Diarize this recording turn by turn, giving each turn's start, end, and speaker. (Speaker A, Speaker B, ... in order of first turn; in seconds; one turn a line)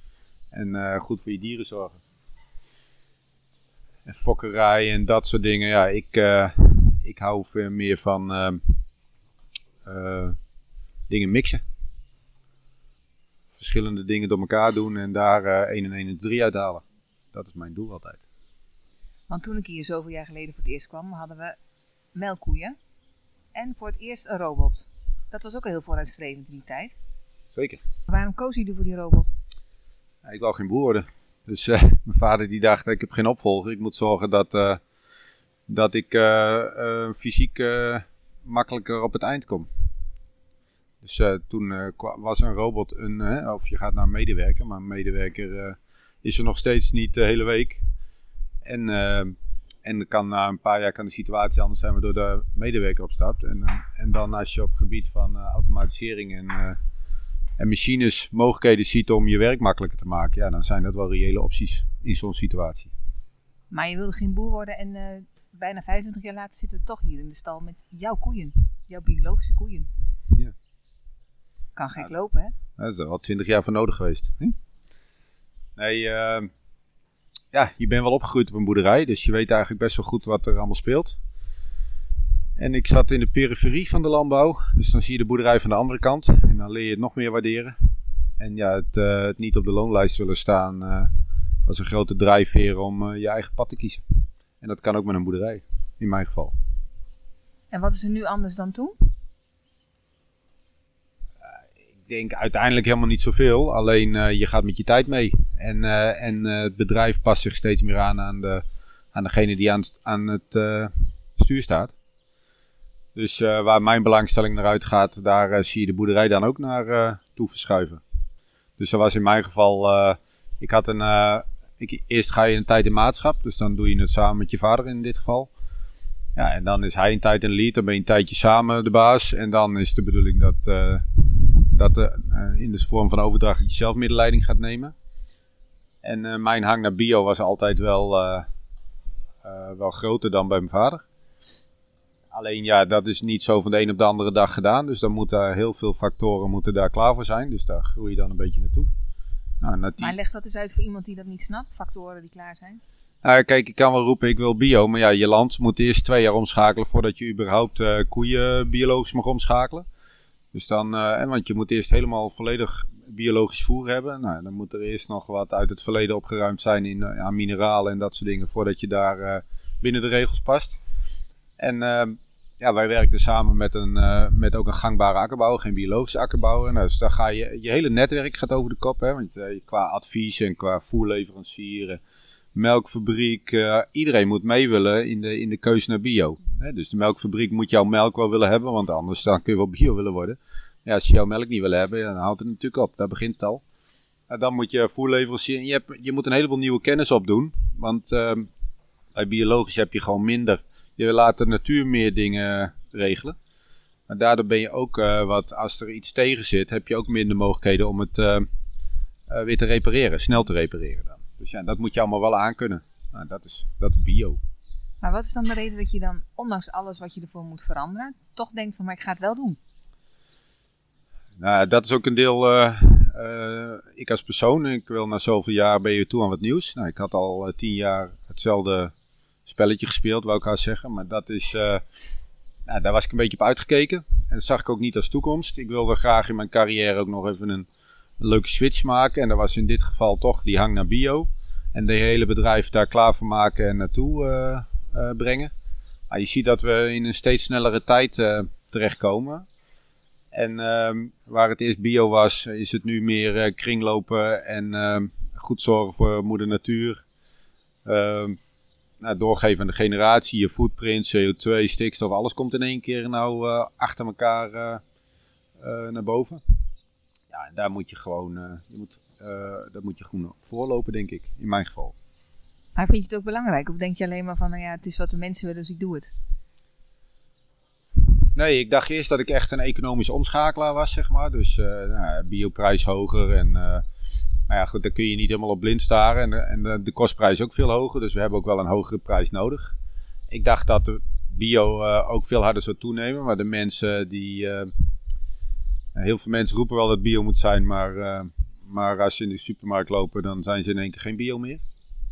Speaker A: 0.5-2.0
Speaker A: 4.0-8.7
Speaker A: 9.8-10.3
Speaker A: 11.1-11.6
Speaker A: 13.5-18.2
Speaker B: 19.3-21.6
Speaker B: 22.1-22.8
Speaker B: 23.5-26.9
Speaker A: 27.5-27.8
Speaker B: 28.1-29.3
Speaker A: 30.2-34.8
Speaker A: 35.7-39.7
Speaker A: 41.0-47.8
Speaker A: 48.6-56.8
Speaker A: 57.6-62.9
Speaker B: 63.7-69.9
Speaker B: 71.8-72.5
Speaker A: 72.8-74.5
Speaker A: 75.8-76.5
Speaker A: 77.5-81.2
Speaker A: 82.5-87.8
Speaker A: 88.4-91.1
Speaker A: 91.7-94.0
Speaker A: 94.6-96.5
Speaker B: 97.7-99.1
Speaker A: 101.4-111.9
Speaker A: 113.1-118.0
Speaker A: 118.8-125.5
Speaker A: 126.3-134.9
Speaker A: 136.0-138.5
Speaker A: 139.4-141.0
Speaker A: 142.3-148.9
Speaker A: 149.6-150.1
Speaker B: 150.0-152.8
Speaker A: 153.2-159.8
Speaker A: 160.5-170.8
Speaker A: 171.6-182.0
Speaker A: 182.5-193.6
Speaker A: 194.3-198.5
Speaker A: 199.1-203.3
Speaker A: 204.1-208.5
Speaker A: 209.3-214.4
Speaker B: 215.0-219.6
Speaker A: 221.4-228.9
Speaker A: 229.4-231.8
Speaker A: 232.7-237.7
Speaker A: 238.2-245.5
Speaker A: 246.1-249.4
Speaker A: 250.3-257.0
Speaker A: 257.8-258.4
Speaker A: 259.0-264.8
Speaker A: 265.6-266.4
Speaker A: 267.3-271.9
Speaker B: 272.8-276.1
Speaker A: 278.3-283.8
Speaker A: 284.5-289.8
Speaker A: 290.3-294.7
Speaker A: 295.9-301.6